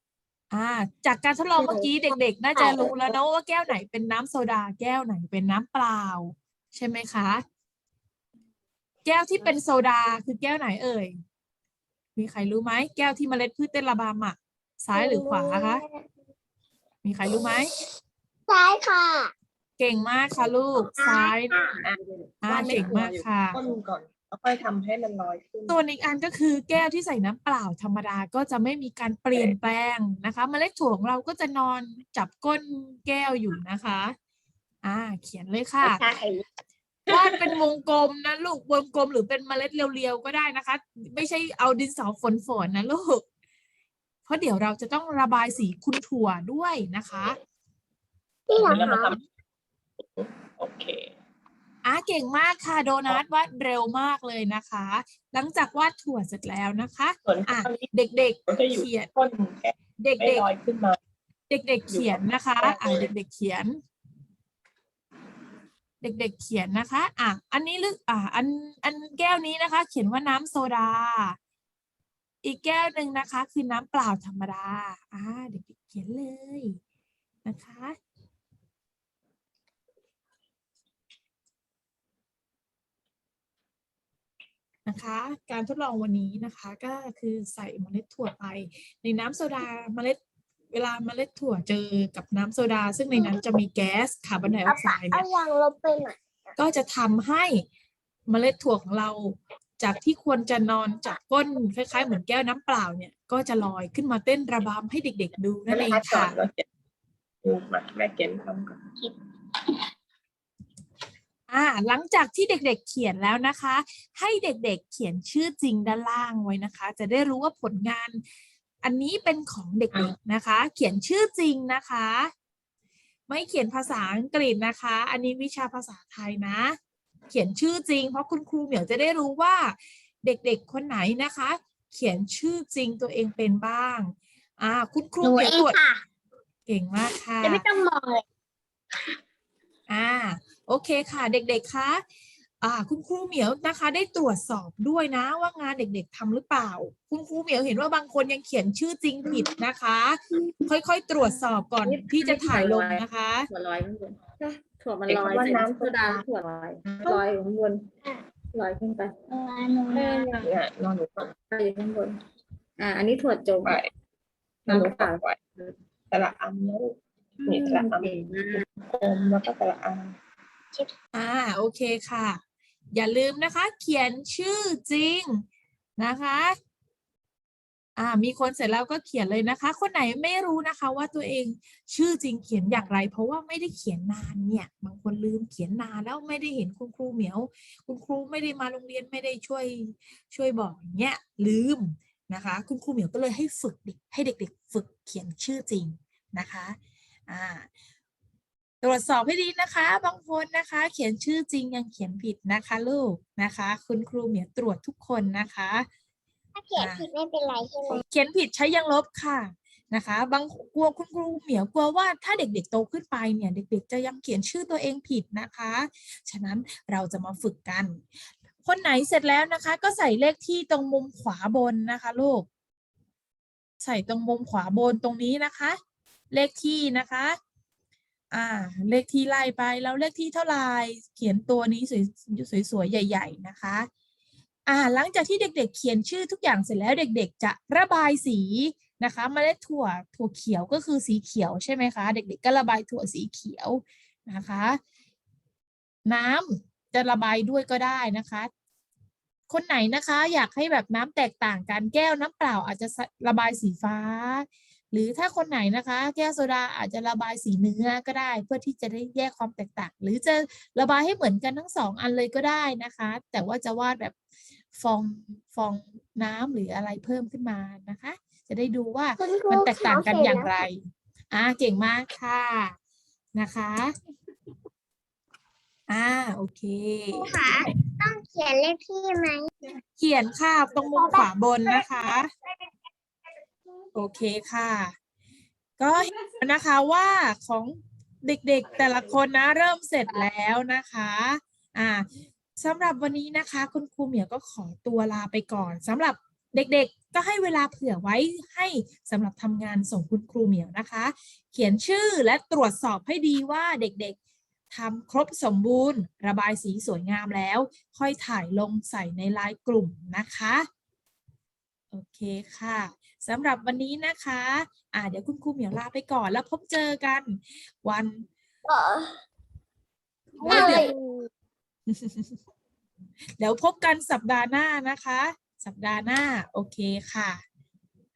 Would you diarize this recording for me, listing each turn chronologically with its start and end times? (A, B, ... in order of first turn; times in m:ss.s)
0:00.5-0:07.4 A
0:01.6-0:03.0 B
0:09.0-0:11.2 A
0:12.2-0:15.8 A
0:14.9-0:16.0 B
0:17.0-0:17.7 A
0:18.5-0:19.3 B
0:19.8-0:21.6 A
0:21.0-0:21.8 B
0:21.8-0:25.8 C
0:22.4-0:23.6 A
0:25.7-0:34.2 A
0:34.8-0:36.0 A
0:35.8-0:36.4 B
0:37.1-0:43.2 A
0:44.3-0:47.4 A
0:48.5-0:49.2 B
0:48.6-0:49.2 C
0:50.2-0:51.0 C
0:51.8-0:59.1 A
0:57.3-0:57.9 C
0:58.5-1:01.0 C
1:00.0-1:00.5 A
1:01.5-1:03.8 A
1:01.9-1:03.1 C
1:06.0-1:11.4 A
1:12.4-1:16.8 A
1:17.4-1:18.0 A
1:24.9-1:30.2 A
1:30.7-1:35.2 A
1:33.1-1:33.4 B
1:34.6-1:36.5 B
1:36.6-1:37.6 A
1:38.3-1:46.4 A
1:45.7-1:46.6 C
1:47.4-1:48.8 C
1:51.5-1:58.2 A
1:58.8-2:02.3 A
2:03.3-2:06.8 A
2:07.3-2:15.8 A
2:15.2-2:16.0 B
2:16.7-2:17.7 A
2:17.4-2:18.2 B
2:19.9-2:22.0 A
2:22.6-2:33.5 A
2:31.3-2:37.9 D
2:35.1-2:36.1 C
2:38.5-2:39.2 D
2:39.3-2:40.3 B
2:39.9-2:40.6 D
2:40.4-2:41.3 C
2:41.5-2:42.2 D
2:42.8-2:43.8 D
2:44.7-2:45.8 D
2:44.7-2:45.4 C
2:46.1-2:48.1 C
2:47.4-2:48.7 D
2:48.9-2:50.2 C
2:51.1-2:52.4 A
2:52.9-2:55.4 A
2:56.0-2:56.6 A
2:58.0-3:16.8 A
3:17.3-3:17.7 A
3:18.8-3:25.9 A
3:26.6-3:28.0 B
3:26.8-3:27.1 A
3:27.9-3:38.1 A
3:38.6-3:42.5 A
3:43.8-3:45.8 A
3:46.3-3:47.4 A
3:48.3-3:53.9 A
3:54.7-4:04.8 A
4:06.1-4:08.5 A
4:09.5-4:24.2 A
4:24.7-4:30.8 A
4:29.2-4:30.6 B
4:31.3-4:32.8 A
4:33.4-4:33.9 A
4:35.9-4:37.4 A
4:37.2-4:39.5 B
4:40.0-4:42.3 A
4:40.9-4:42.5 B
4:43.9-4:45.0 A
4:45.8-4:52.1 A
4:52.6-5:04.2 A
5:04.7-5:10.7 A
5:11.9-5:18.3 A
5:18.7-5:19.1 B
5:20.4-5:21.3 B
5:20.4-5:20.9 A
5:21.9-5:22.4 A
5:23.4-5:27.4 A